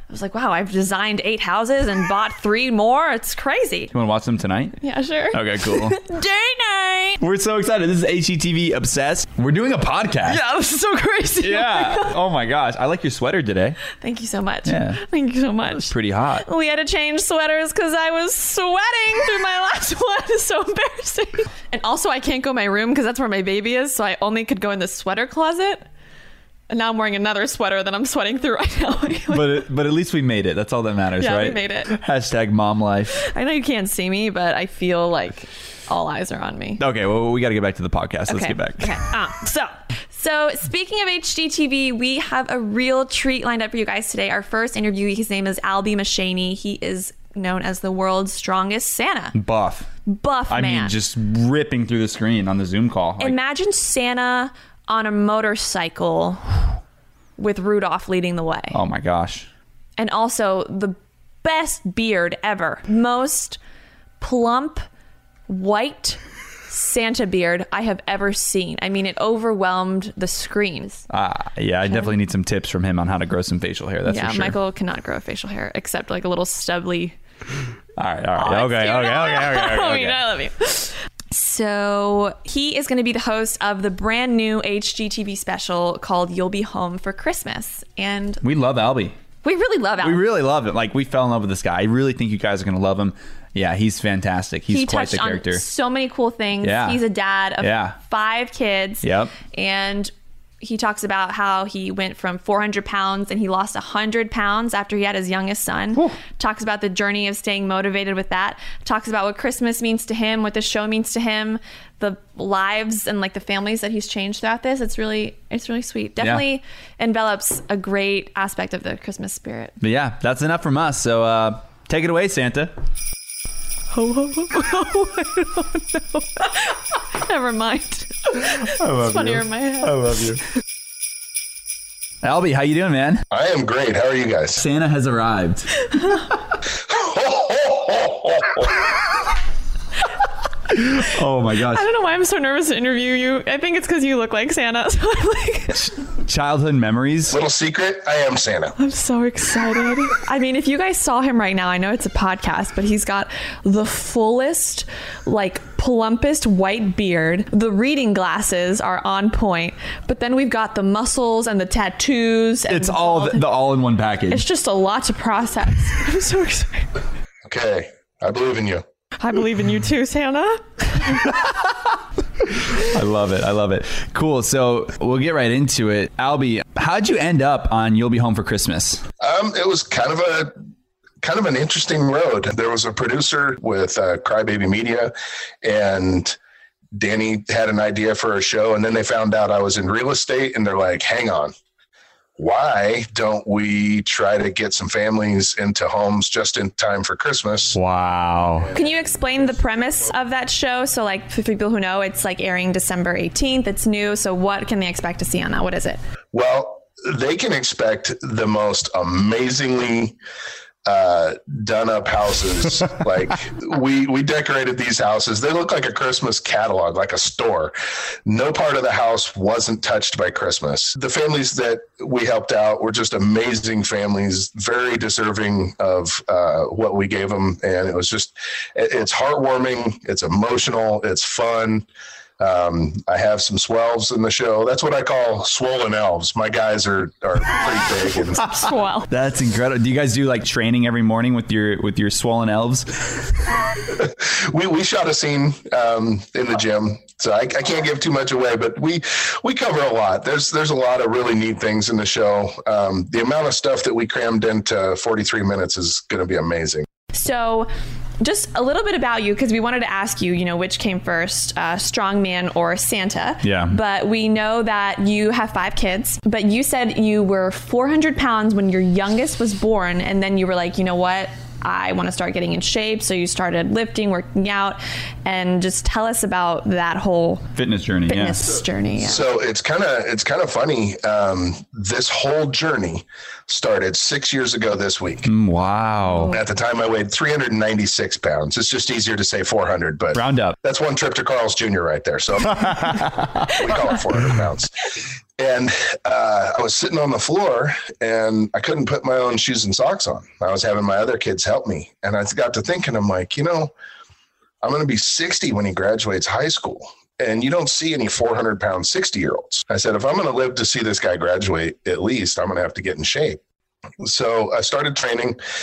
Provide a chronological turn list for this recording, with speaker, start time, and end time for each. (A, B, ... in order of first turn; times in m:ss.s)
0:00.1-0:03.9 A
0:03.9-0:04.8 B
0:04.8-0:07.2 A
0:05.3-0:06.0 B
0:07.2-0:10.4 B
0:10.3-0:12.2 A
0:11.4-0:13.8 B
0:14.0-0:25.9 A
0:14.7-0:15.0 B
0:15.8-0:16.5 B
0:26.7-0:29.7 A
0:29.3-0:33.2 B
0:31.2-0:31.9 A
0:33.1-0:36.8 A
0:36.8-0:39.0 B
0:38.3-0:49.4 A
0:49.3-0:49.9 B
0:50.1-0:50.9 A
0:50.5-0:53.4 B
0:53.2-0:56.8 A
0:57.4-0:58.8 A
0:58.7-0:59.5 B
1:00.0-1:03.6 A
1:04.2-1:04.8 A
1:05.5-1:11.1 A
1:11.1-1:14.6 B
1:14.1-1:17.2 A
1:18.0-1:20.2 B
1:18.4-1:28.4 A
1:28.4-1:29.2 B
1:29.4-1:30.2 A
1:30.0-1:35.6 B
1:34.7-1:59.8 A
1:36.6-1:37.0 B
1:37.6-1:38.0 B
1:39.0-1:39.3 B
1:59.8-2:02.7 B
2:03.9-2:10.0 A
2:08.6-2:10.4 B
2:12.2-2:13.2 B
2:13.3-2:14.6 C
2:14.6-2:16.2 B
2:16.9-2:18.9 C
2:20.7-2:21.8 B
2:21.7-2:25.9 A
2:26.2-2:27.4 B
2:27.3-2:28.8 C
2:28.8-2:43.5 A
2:42.7-2:44.4 B
2:44.3-2:46.9 A
2:47.5-2:48.8 C
2:49.2-2:51.3 A
2:52.8-2:59.0 B
2:59.2-3:00.6 C
3:01.2-3:06.4 C
3:07.0-3:11.5 C
3:12.4-3:17.8 C
3:17.7-3:18.7 B
3:18.7-3:26.0 A
3:26.3-3:30.2 C
3:30.8-3:37.7 C
3:38.3-3:51.9 C
3:52.4-3:58.5 C
3:58.5-3:59.1 A
3:59.1-4:02.9 B
4:03.9-4:16.8 C
4:17.1-4:37.5 A
4:23.4-4:23.8 B
4:37.6-4:38.4 B
4:38.1-4:39.2 A
4:39.0-4:45.3 C
4:45.3-4:46.4 B
4:46.2-4:54.8 C
4:50.2-4:50.6 B
4:52.6-4:53.5 B
4:55.4-5:03.7 C
5:04.6-5:13.4 C
5:14.0-5:15.4 C